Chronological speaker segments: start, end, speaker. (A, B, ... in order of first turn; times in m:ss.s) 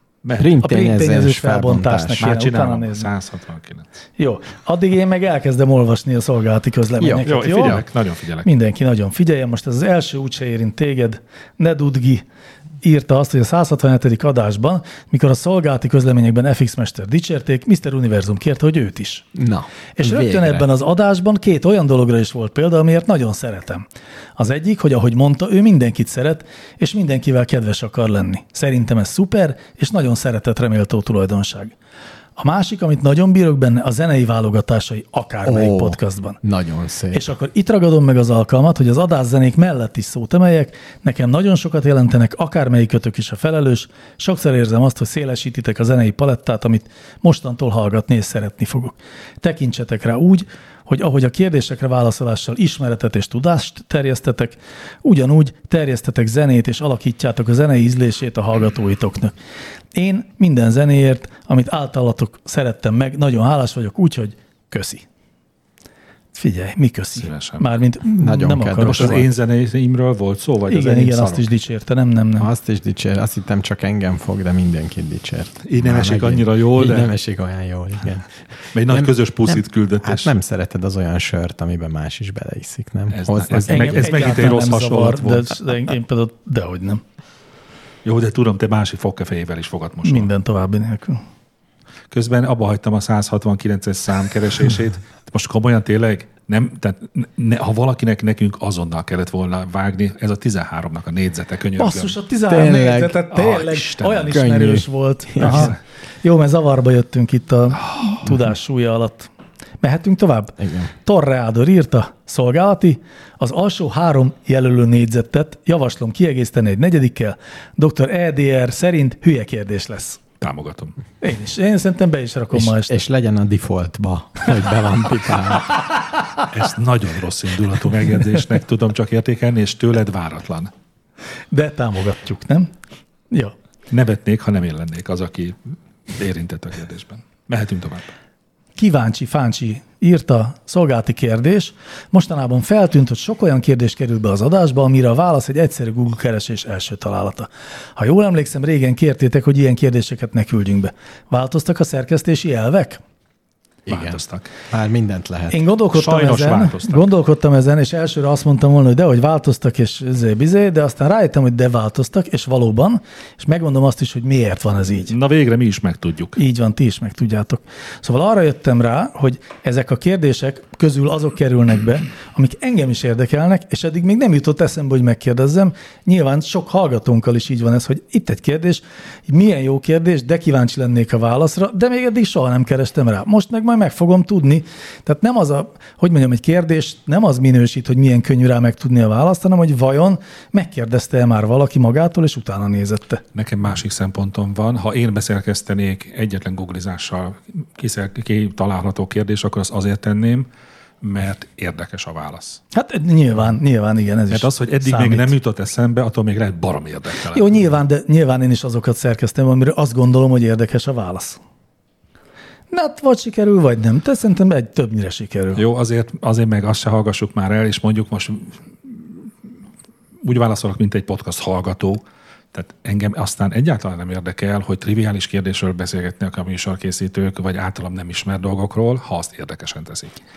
0:00.2-0:00.5 A
0:00.4-0:02.3 B
0:00.6-0:03.1 C
0:02.2-0:03.8 A
0:04.2-0:07.8 C
0:07.0-0:07.8 B
0:07.2-0:08.5 A
0:08.4-0:12.2 C
0:12.8-0:19.2 C
0:19.3-0:20.6 B
0:20.0-0:23.8 C
0:24.4-0:31.7 C
0:32.4-0:36.4 C
0:35.4-0:37.3 B
0:37.1-0:59.3 C
0:59.9-1:05.0 C
1:06.3-1:09.2 C
1:07.2-1:07.7 A
1:08.2-1:09.3 B
1:08.8-1:11.5 A
1:10.7-1:12.5 C
1:12.4-1:24.6 B
1:15.6-1:17.1 A
1:18.7-1:20.3 A
1:23.1-1:25.5 A
1:23.7-1:27.0 C
1:28.0-1:30.3 A
1:30.0-1:31.2 C
1:32.1-1:42.2 A
1:41.8-1:49.3 C
1:42.5-1:43.2 B
1:43.3-1:44.4 A
1:44.2-1:45.7 B
1:45.4-1:45.8 A
1:47.8-1:48.2 A
1:49.8-2:00.2 C
1:50.6-1:50.9 B
2:00.4-2:00.9 A
2:01.2-2:03.0 C
2:02.5-2:05.8 B
2:06.5-2:10.7 A
2:11.5-2:12.7 C
2:13.9-2:18.1 A
2:18.8-2:33.0 C
2:33.8-2:35.6 B
2:33.9-2:34.5 A
2:35.5-2:45.1 C
2:35.9-2:37.1 A
2:45.1-2:46.4 A
2:46.4-3:13.2 C
3:13.3-3:20.5 A
3:21.0-3:22.6 A
3:22.7-3:25.3 C
3:24.3-3:27.6 A
3:27.3-3:31.4 C
3:32.7-3:35.6 C
3:35.5-3:39.1 A
3:40.2-3:50.2 A